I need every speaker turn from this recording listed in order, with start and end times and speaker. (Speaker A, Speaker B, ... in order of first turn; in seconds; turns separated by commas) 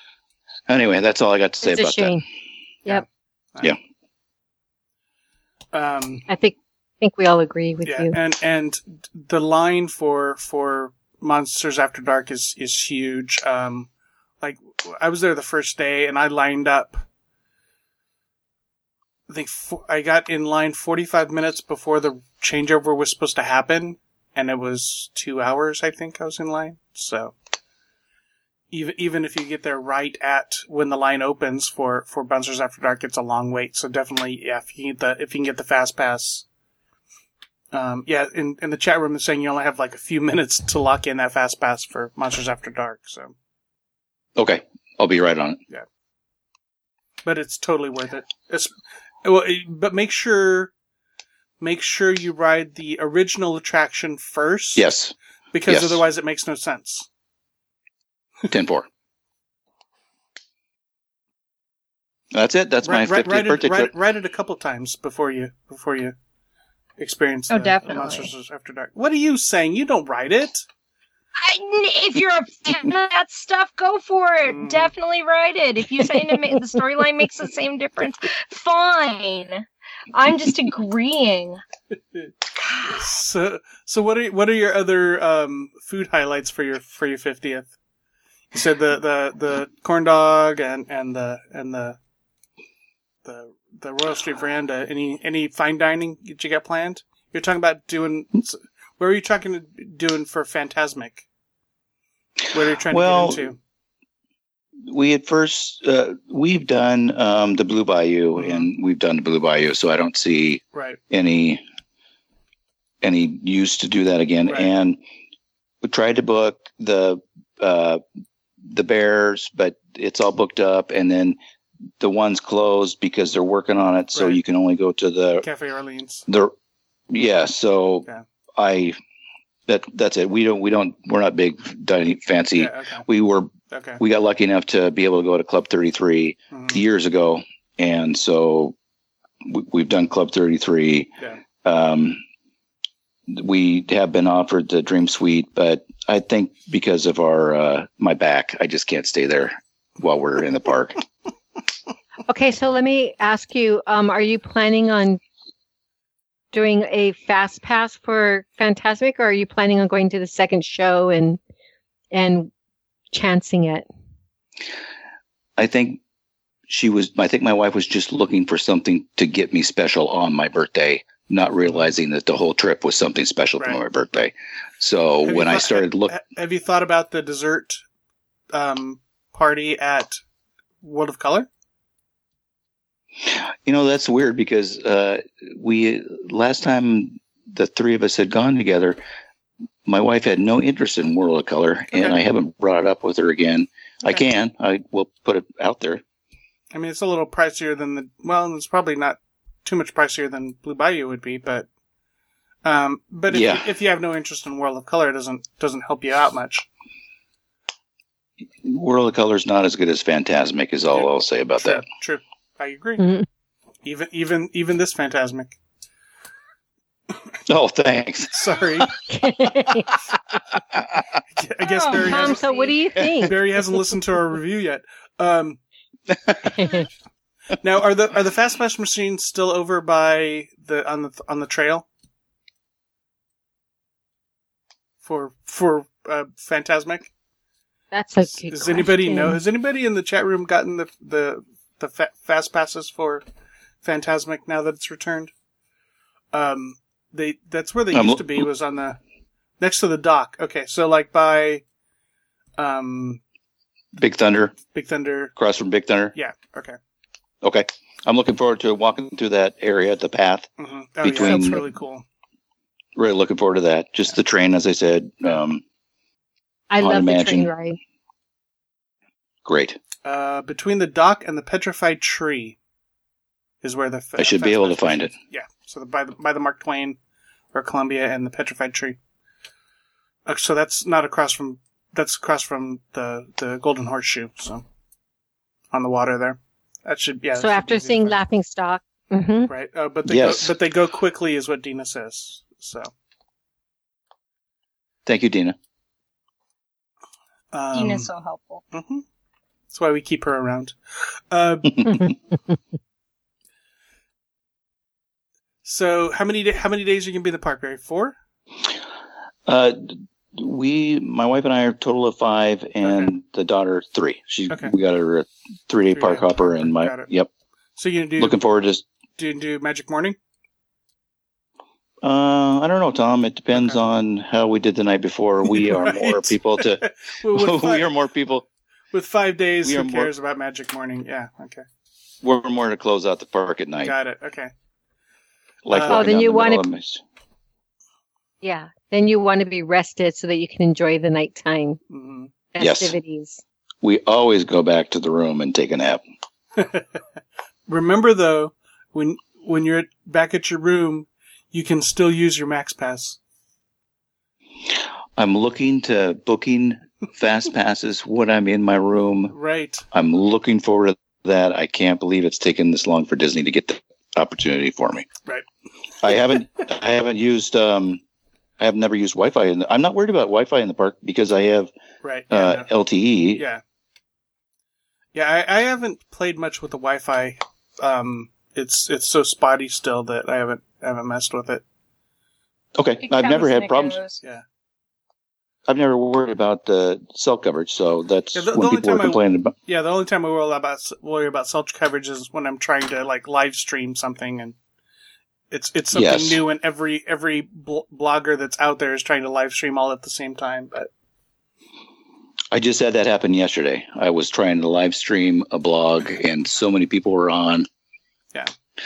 Speaker A: 0.7-2.2, Speaker B: 1.6-2.2, Speaker C: 2.9-3.7, Speaker C: 5.7-6.3, Speaker B: 6.3-8.2, Speaker C: 7.8-13.9, Speaker C: 14.4-17.0, Speaker C: 19.3-27.3, Speaker C: 28.7-36.4, Speaker C: 37.7-43.3, Speaker A: 44.4-45.6, Speaker C: 47.2-50.7, Speaker C: 51.6-54.9, Speaker A: 54.8-55.1, Speaker C: 55.5-57.1, Speaker A: 55.6-56.0, Speaker A: 58.5-58.9, Speaker A: 62.3-63.9, Speaker C: 62.8-66.1, Speaker C: 67.0-70.6, Speaker D: 67.5-68.3, Speaker D: 71.4-81.6, Speaker C: 74.5-74.9, Speaker D: 82.5-83.1, Speaker C: 82.9-87.7, Speaker C: 88.5-92.0, Speaker C: 93.2-101.2, Speaker C: 102.5-103.6, Speaker A: 102.9-103.5, Speaker A: 104.8-111.6, Speaker C: 108.3-108.7, Speaker C: 110.7-111.0, Speaker A: 113.0-115.0, Speaker A: 115.8-118.0, Speaker A: 118.7-121.4, Speaker A: 122.0-125.5, Speaker C: 124.1-124.4, Speaker C: 125.4-126.2, Speaker A: 126.3-126.5, Speaker A: 127.1-129.0, Speaker A: 129.7-138.7, Speaker C: 132.6-133.0, Speaker C: 133.7-134.0, Speaker C: 136.5-136.8, Speaker A: 139.4-141.1, Speaker A: 141.6-142.2, Speaker A: 143.3-151.0, Speaker B: 152.3-155.2, Speaker B: 156.5-161.4, Speaker B: 162.1-162.5, Speaker B: 163.1-163.8, Speaker A: 165.6-166.0, Speaker A: 166.7-176.1, Speaker C: 171.6-171.9, Speaker C: 175.2-177.8, Speaker C: 178.5-180.2, Speaker C: 180.8-181.5, Speaker A: 183.2-189.0, Speaker A: 189.8-196.0, Speaker C: 196.7-201.7, Speaker C: 202.6-206.7, Speaker A: 203.3-203.7, Speaker A: 208.6-211.8, Speaker C: 210.9-213.2, Speaker B: 213.0-213.2, Speaker C: 213.8-215.6, Speaker A: 217.4-218.4, Speaker C: 218.3-218.9, Speaker B: 219.1-220.0, Speaker A: 220.7-221.1, Speaker C: 221.3-222.4, Speaker D: 221.6-222.7, Speaker B: 221.9-223.4, Speaker C: 223.2-225.6, Speaker B: 226.4-226.9, Speaker C: 227.6-231.9, Speaker C: 235.0-237.1, Speaker B: 237.9-239.4, Speaker C: 238.3-243.2, Speaker C: 243.8-245.3, Speaker C: 246.3-249.0, Speaker A: 247.9-248.4, Speaker C: 249.6-251.6, Speaker C: 252.6-253.2, Speaker A: 253.9-254.5, Speaker C: 254.7-255.3, Speaker A: 255.3-256.1, Speaker C: 256.1-256.8, Speaker A: 257.4-260.5, Speaker C: 260.6-262.0, Speaker A: 261.0-261.6, Speaker B: 261.1-261.6, Speaker A: 262.9-265.6, Speaker B: 266.7-267.8, Speaker A: 266.8-267.5, Speaker A: 269.4-269.8, Speaker C: 270.0-272.6, Speaker C: 273.6-277.0, Speaker A: 274.2-275.1, Speaker C: 277.5-279.0, Speaker C: 280.2-284.6, Speaker C: 285.7-288.2, Speaker B: 287.4-289.5, Speaker C: 289.5-292.9, Speaker A: 290.1-290.5, Speaker A: 295.1-295.6, Speaker C: 297.5-298.1, Speaker D: 297.7-298.6, Speaker C: 298.7-299.0, Speaker C: 299.7-302.1, Speaker C: 305.6-308.1, Speaker A: 309.4-317.3, Speaker C: 312.8-313.1, Speaker C: 315.9-317.1, Speaker C: 317.8-318.4, Speaker A: 318.2-318.8, Speaker C: 319.2-320.2, Speaker A: 322.0-328.4, Speaker C: 323.5-323.8, Speaker C: 325.5-327.9, Speaker C: 328.9-331.6, Speaker A: 329.6-330.1, Speaker A: 332.2-333.9, Speaker C: 333.8-334.5, Speaker A: 335.6-337.0, Speaker C: 335.7-336.0, Speaker B: 335.9-336.6, Speaker B: 338.4-341.8, Speaker C: 341.9-342.3, Speaker B: 342.5-343.4, Speaker A: 342.6-342.9, Speaker A: 343.8-346.0, Speaker C: 346.6-347.0, Speaker C: 347.7-353.2, Speaker A: 355.2-359.3, Speaker C: 359.3-359.8, Speaker A: 359.9-365.1, Speaker A: 366.0-368.0, Speaker A: 368.6-371.7, Speaker C: 372.0-372.7, Speaker A: 372.3-373.4, Speaker C: 373.4-373.6, Speaker C: 375.1-381.6, Speaker A: 382.8-384.0, Speaker D: 383.0-384.2, Speaker A: 385.7-389.5, Speaker C: 388.3-394.5, Speaker C: 395.5-400.9, Speaker A: 395.9-396.4, Speaker A: 402.5-407.7